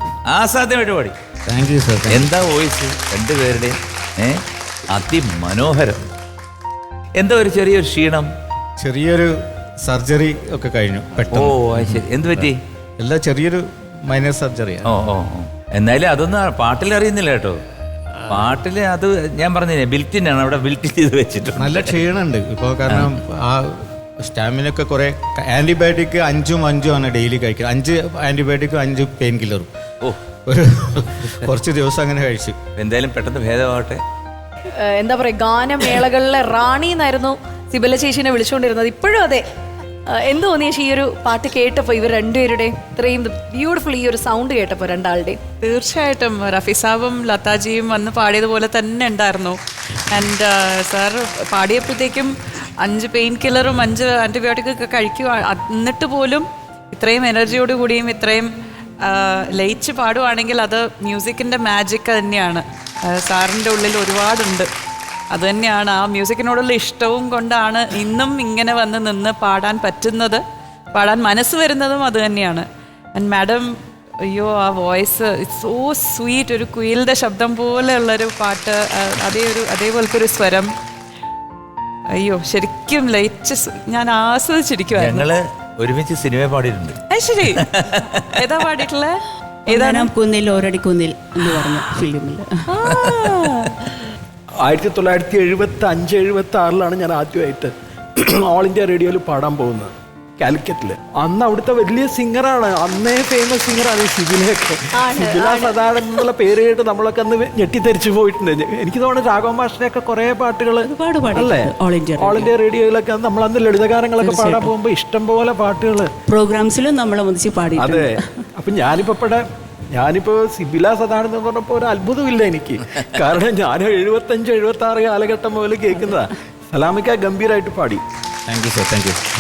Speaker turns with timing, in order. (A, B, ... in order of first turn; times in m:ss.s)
0:00.3-0:01.2 A
0:01.5-0:02.3 B
0:02.1-0:04.4 A
0:04.9-0:06.0 A
0:07.2-0:08.3 A
0:08.8-0:09.3 B
0:09.8-0:14.9 B
0:11.3-0:12.6 A
0:14.8-0:17.6 A
0:18.3-0:22.0 A
0:21.6-0:29.7 B
0:30.5-0:32.6 B
0:32.8-0:34.0 A
0:34.8-0:39.4 C
0:40.1-0:45.4 C
0:45.6-0:49.6 D
0:50.1-0:58.5 D
0:59.0-1:04.7 D
1:05.3-1:10.4 D
1:10.9-1:13.7 D
1:14.3-1:20.7 D
1:22.1-1:25.3 D
1:25.0-1:27.0 A
1:27.1-1:27.7 D
1:27.7-1:28.3 A
1:28.2-1:30.1 D
1:29.7-1:32.8 E
1:32.8-1:33.5 A
1:32.8-1:33.6 D
1:34.6-1:56.1 F
1:44.9-1:45.8 C
1:50.8-1:52.5 E
1:54.2-1:54.7 E
1:56.3-1:58.5 E
1:57.8-2:08.0 F
2:08.5-2:09.2 B